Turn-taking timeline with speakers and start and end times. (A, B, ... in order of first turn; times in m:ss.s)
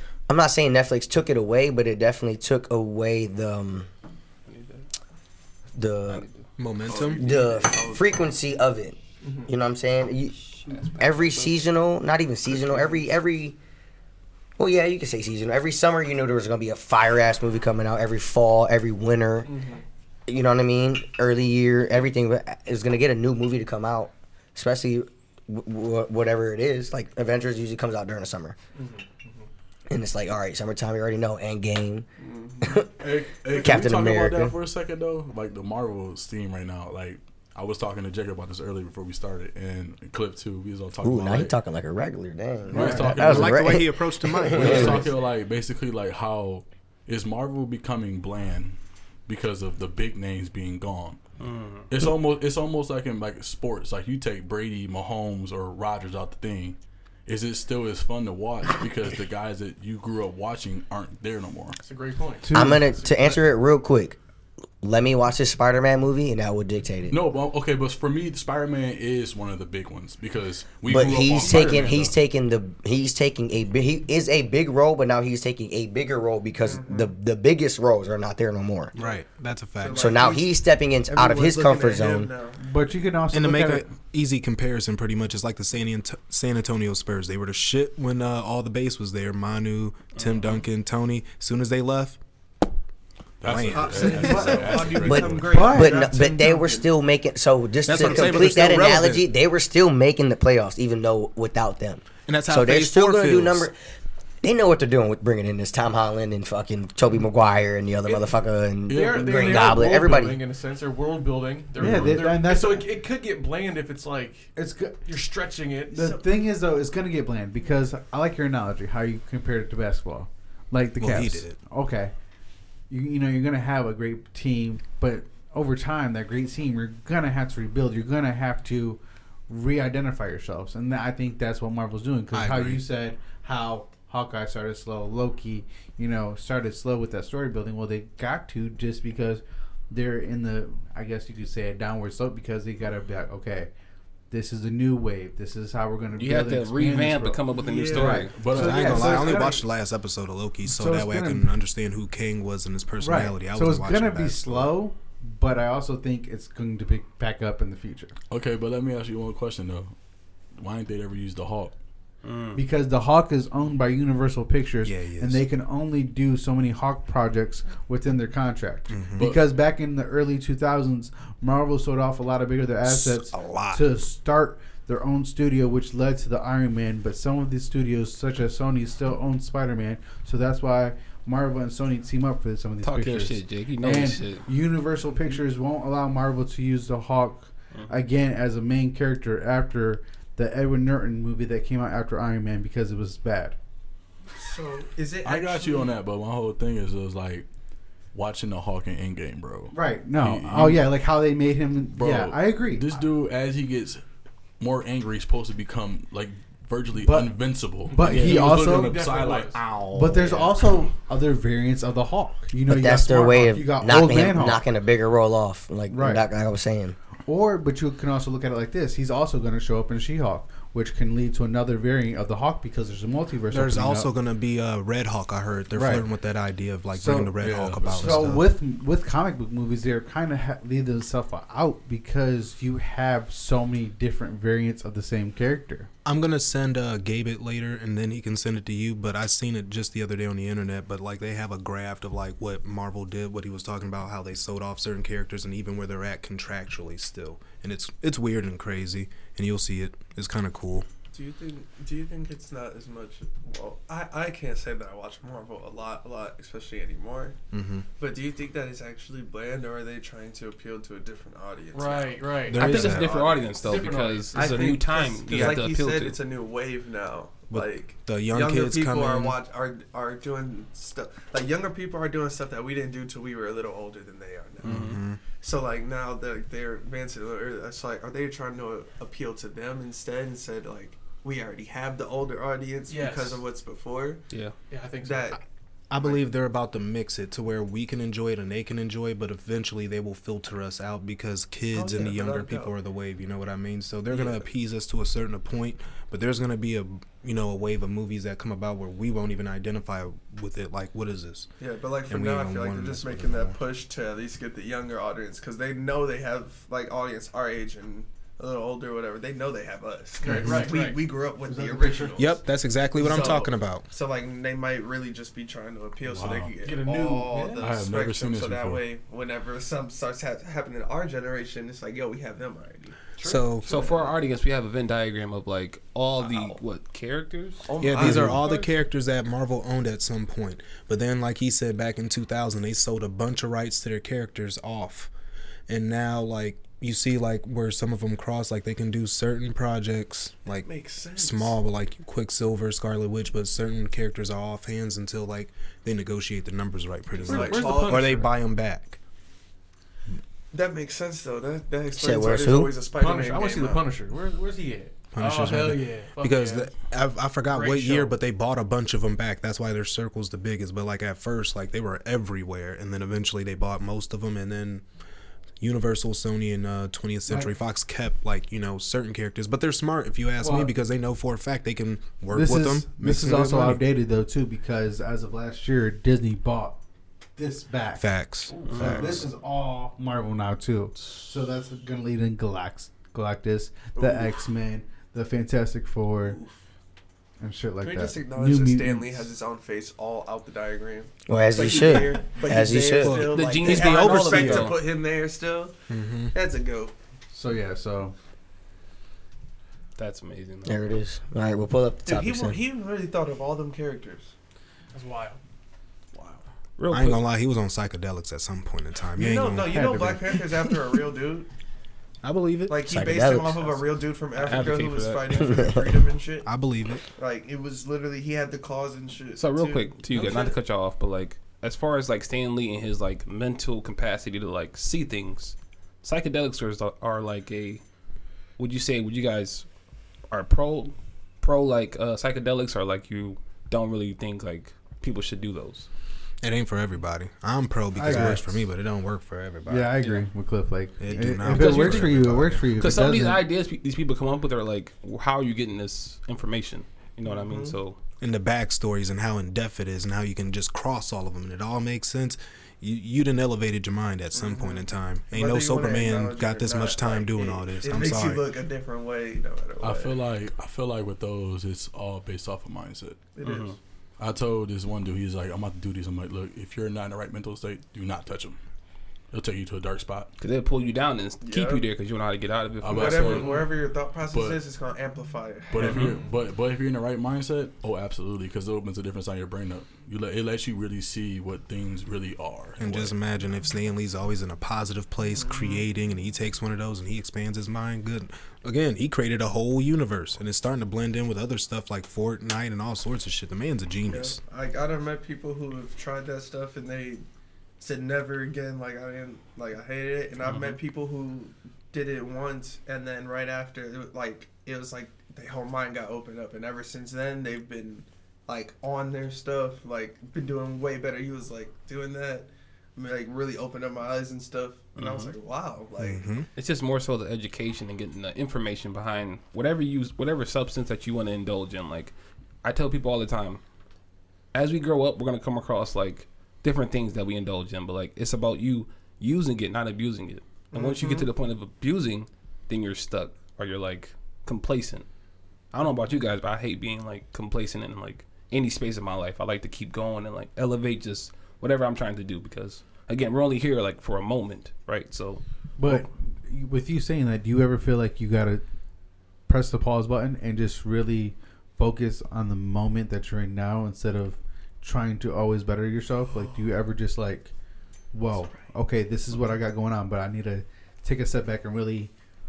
0:00.3-0:03.9 A
0:04.5-0:04.9 B
0:05.7-0:06.2 A
0:06.1-0:06.3 B
0:06.6-0:07.2 C
0:06.9-0:08.2 D
0:07.2-0:13.6 A
0:09.2-0:09.5 D
0:11.0-0:11.4 B
0:12.6-0:13.0 D
0:14.6-0:19.5 A
0:19.4-0:19.8 D
0:20.3-0:28.6 A
0:28.8-0:29.5 D
0:29.9-0:32.1 A
0:32.2-0:32.8 D
0:32.6-0:32.9 A
0:33.0-0:41.6 E
0:33.4-0:34.6 A
0:41.0-0:45.1 A
0:42.7-0:43.8 E
0:42.7-0:43.2 F
0:43.2-0:45.1 C
0:44.5-0:48.8 E
0:49.3-0:51.2 E
0:51.4-0:51.9 B
0:51.9-1:01.8 E
1:01.8-1:03.4 G
1:02.4-1:03.0 F
1:02.5-1:04.2 A
1:04.8-1:07.2 A
1:07.1-1:12.2 E
1:10.9-1:18.9 A
1:11.4-1:12.0 G
1:16.6-1:17.1 D
1:19.0-1:20.3 C
1:19.8-1:22.6 D
1:20.0-1:22.3 A
1:22.6-1:23.9 F
1:23.3-1:32.2 C
1:33.4-1:35.7 E
1:33.4-1:34.3 C
1:33.5-1:36.9 D
1:34.3-1:34.6 F
1:35.0-1:43.8 A
1:35.5-1:36.1 F
1:37.8-1:39.3 C
1:38.0-1:38.4 D
1:42.3-1:43.7 C
1:44.4-1:50.4 A
1:48.0-1:48.3 G
1:48.9-1:50.2 E
1:48.9-1:54.5 G
1:51.8-1:52.9 F
1:51.8-1:52.2 E
1:54.6-1:55.1 F
1:55.0-1:56.2 G
1:55.9-2:02.1 F
2:01.0-2:01.6 C
2:02.9-2:23.7 F
2:12.3-2:12.8 C
2:24.3-2:29.6 F
2:26.2-2:28.4 B
2:27.5-2:28.3 D
2:28.2-2:29.3 E
2:28.5-2:34.8 C
2:30.7-2:31.6 F
2:33.0-2:38.1 F
2:38.3-2:39.9 E
2:40.6-2:41.7 E
2:42.2-2:42.6 B
2:42.5-3:13.6 F
2:44.8-2:45.4 C
2:48.9-2:49.3 C
2:49.2-2:49.4 E
2:52.8-2:53.9 C
3:02.8-3:04.5 B
3:14.4-3:16.0 D
3:15.2-3:17.5 E
3:18.1-3:21.0 E
3:19.7-3:22.9 F
3:22.0-3:24.0 E
3:24.6-3:29.6 E
3:27.0-3:29.0 F
3:28.0-3:29.6 G
3:29.4-3:30.5 C
3:29.9-3:34.6 F
3:32.7-3:37.0 A
3:35.9-3:36.2 F
3:37.3-3:44.1 F
3:43.5-3:48.4 C
3:45.7-3:46.1 F
3:46.9-3:55.9 F
3:47.4-3:48.4 E
3:56.0-4:10.9 C
4:11.1-4:17.4 D
4:17.5-4:17.9 C
4:18.0-4:44.2 D
4:21.7-4:25.0 G
4:22.5-4:23.1 C
4:22.5-4:26.2 B
4:25.3-4:25.6 C
4:27.5-4:29.4 C
4:34.6-4:35.0 B
4:34.6-4:35.2 C
4:42.9-4:43.4 G
4:44.7-4:45.4 G
4:45.0-4:45.4 D
4:45.9-5:01.5 C
4:46.0-4:46.2 D
4:51.7-4:52.8 D
4:54.1-4:54.5 D
5:01.6-5:12.4 D
5:02.1-5:03.6 C
5:10.2-5:11.0 G
5:11.5-5:12.2 F
5:12.2-5:13.8 C
5:13.0-5:23.1 D
5:13.0-5:13.4 G
5:16.0-5:16.5 E
5:16.6-5:17.8 G
5:17.6-5:18.8 E
5:23.2-5:24.1 G
5:23.2-5:23.7 C
5:23.7-5:28.0 B
5:26.2-5:26.6 D
5:27.6-5:28.5 D
5:27.8-5:35.1 C
5:28.4-5:28.7 G
5:35.7-5:49.0 C
5:40.5-5:41.6 D
5:47.2-5:48.3 D
5:47.3-5:48.4 G
5:50.5-5:53.8 D
5:52.0-5:52.8 A
5:52.9-5:56.7 G
5:55.1-6:04.8 C
5:57.5-5:58.2 G
6:05.6-6:13.8 C
6:07.3-6:07.5 F
6:10.4-6:10.7 F
6:12.3-6:16.8 F
6:17.4-6:18.1 F
6:18.0-6:19.2 C
6:18.7-6:19.3 B
6:18.8-6:26.4 F
6:24.0-6:24.4 D
6:26.2-6:26.5 D
6:27.4-6:29.2 F
6:27.8-6:35.7 D
6:31.3-6:33.3 A
6:33.0-6:34.7 C
6:33.3-6:34.8 B
6:35.9-6:36.3 C
6:36.3-6:36.9 D
6:37.3-6:38.2 F
6:40.0-6:40.8 B
6:40.6-6:42.6 A
6:42.1-6:44.3 D
6:44.9-6:45.4 G
6:46.8-6:47.2 B
6:46.9-6:49.8 C
6:49.2-6:51.5 D
6:49.7-6:50.2 F
6:52.2-6:52.8 C
6:52.7-6:56.5 D
6:52.8-6:53.8 A
6:54.4-6:55.6 B
6:55.5-6:55.9 A
6:56.4-6:57.0 C
6:57.1-7:00.6 D
6:59.4-7:07.8 B
7:08.6-7:09.7 B
7:10.3-7:15.9 B
7:16.4-7:20.0 C
7:18.0-7:18.6 F
7:19.7-7:23.4 F
7:20.0-7:20.3 B
7:21.0-7:22.7 C
7:21.5-7:22.2 B
7:22.8-7:28.0 B
7:27.2-7:27.8 D
7:28.2-7:38.5 C
7:34.3-7:40.2 D
7:39.8-7:43.2 E
7:43.4-7:43.8 D
7:43.4-7:43.8 B
7:44.2-7:48.6 E
7:49.3-7:50.3 E
7:50.4-7:53.6 B
7:51.4-7:51.9 D
7:52.8-7:53.6 E
7:52.8-7:56.3 D
7:53.4-7:53.7 G
7:54.3-7:54.6 E
7:55.7-8:03.1 E
8:02.8-8:14.4 C
8:05.3-8:05.9 D
8:14.1-8:17.2 D
8:17.8-8:36.3 D
8:20.5-8:20.8 B
8:35.0-8:35.4 B
8:36.0-8:36.5 C
8:36.6-8:42.1 B
8:42.6-8:43.6 B
8:44.5-8:55.1 B
8:50.7-8:51.3 D
8:55.7-9:05.4 B
9:05.8-9:08.6 F
9:09.5-9:17.5 F
9:18.1-9:22.1 F
9:18.3-9:18.6 D